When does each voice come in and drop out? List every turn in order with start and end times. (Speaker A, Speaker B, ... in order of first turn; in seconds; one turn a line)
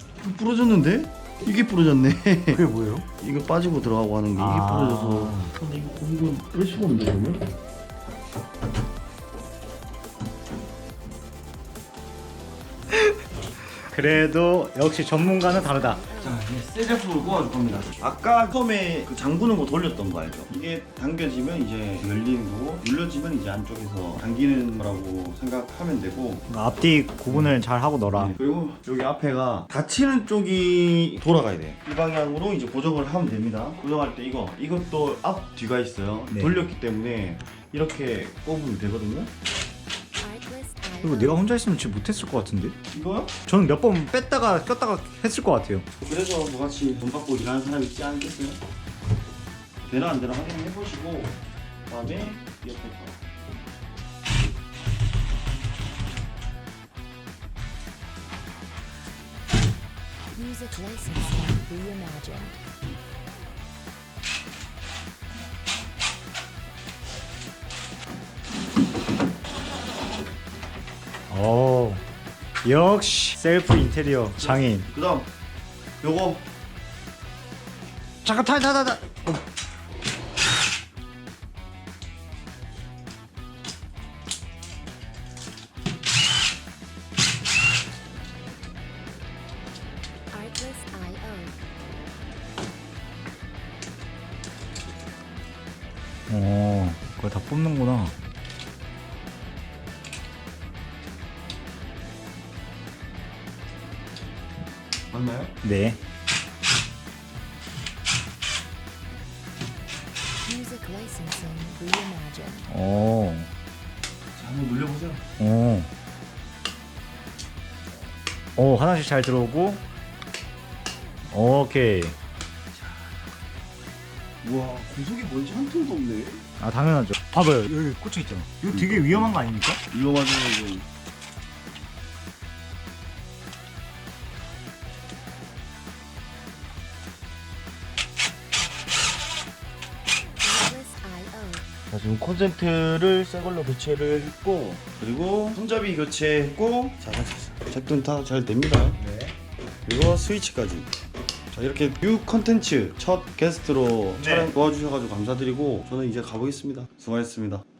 Speaker A: 0.2-2.6
Speaker B: 2.5-3.1
Speaker A: 3.2-7.4
Speaker B: 4.4-5.5
Speaker B: 12.9-13.2
Speaker B: 13.9-16.1
Speaker C: 15.3-16.4
Speaker A: 16.2-26.5
Speaker B: 26.5-28.3
Speaker A: 28.1-39.3
Speaker B: 36.3-36.6
Speaker C: 40.2-41.5
Speaker B: 41.0-42.8
Speaker A: 42.9-43.3
Speaker B: 43.5-45.9
Speaker A: 46.0-48.6
Speaker A: 49.9-51.3
Speaker A: 51.9-53.2
Speaker C: 60.3-62.6
Speaker B: 71.3-72.0
Speaker B: 72.6-74.9
Speaker A: 74.4-75.3
Speaker A: 76.0-76.4
Speaker B: 78.2-79.4
Speaker C: 90.3-91.5
Speaker B: 96.3-98.2
Speaker A: 105.1-105.5
Speaker B: 105.6-106.0
Speaker C: 110.5-112.7
Speaker B: 112.7-113.5
Speaker A: 114.3-115.2
Speaker B: 115.4-115.9
Speaker B: 118.6-119.8
Speaker B: 121.3-122.2
Speaker A: 122.7-123.0
Speaker A: 124.4-126.4
Speaker B: 126.6-129.8
Speaker A: 128.7-130.8
Speaker C: 140.4-141.7
Speaker A: 141.9-149.0
Speaker B: 149.0-149.4
Speaker A: 149.9-150.9
Speaker A: 151.5-157.6
Speaker B: 154.2-154.5